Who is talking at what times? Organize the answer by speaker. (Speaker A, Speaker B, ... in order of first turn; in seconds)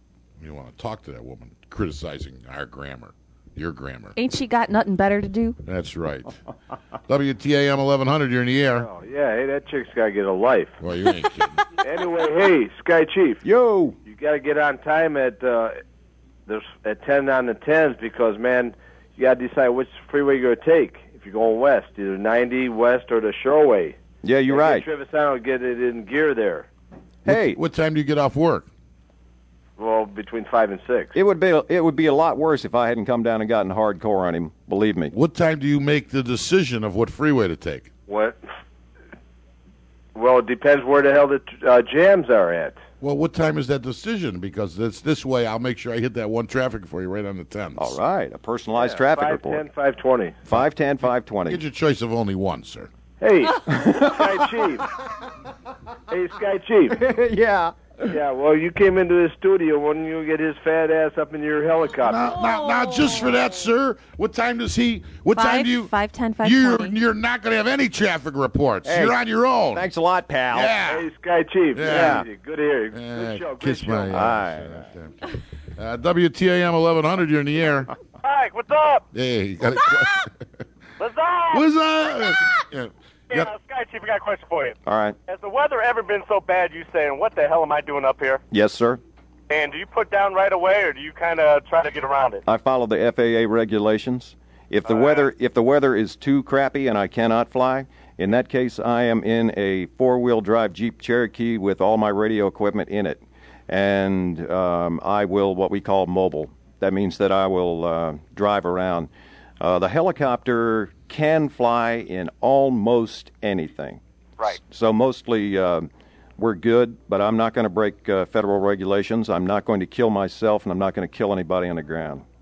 Speaker A: 0.4-4.1, 5.6-6.4, 7.1-8.9, 10.8-11.6, 27.2-28.7, 35.1-37.9, 43.0-48.0, 51.5-52.9, 62.0-65.9, 66.4-69.9, 70.5-71.1, 71.7-72.3, 72.9-77.9, 79.1-80.3, 81.5-83.5
Speaker B: 4.2-5.6, 62.3-63.4, 65.3-67.0
Speaker C: 9.1-9.6, 10.2-10.7, 11.9-13.4, 14.2-15.7, 17.1-23.9, 24.5-26.6, 29.9-31.1, 40.7-41.4, 41.9-42.7, 56.2-56.9, 58.4-62.1, 70.9-71.9, 72.4-74.0
Speaker D: 13.4-14.0, 24.2-24.9, 27.2-27.6, 31.1-35.1, 47.8-49.6, 50.4-51.6, 53.7-54.5, 56.9-57.9, 68.8-69.2, 69.7-70.8, 71.8-72.3, 74.1-74.9, 84.8-85.2, 88.5-89.0, 92.4-122.2
Speaker E: 83.7-84.4, 85.3-86.8, 89.5-92.3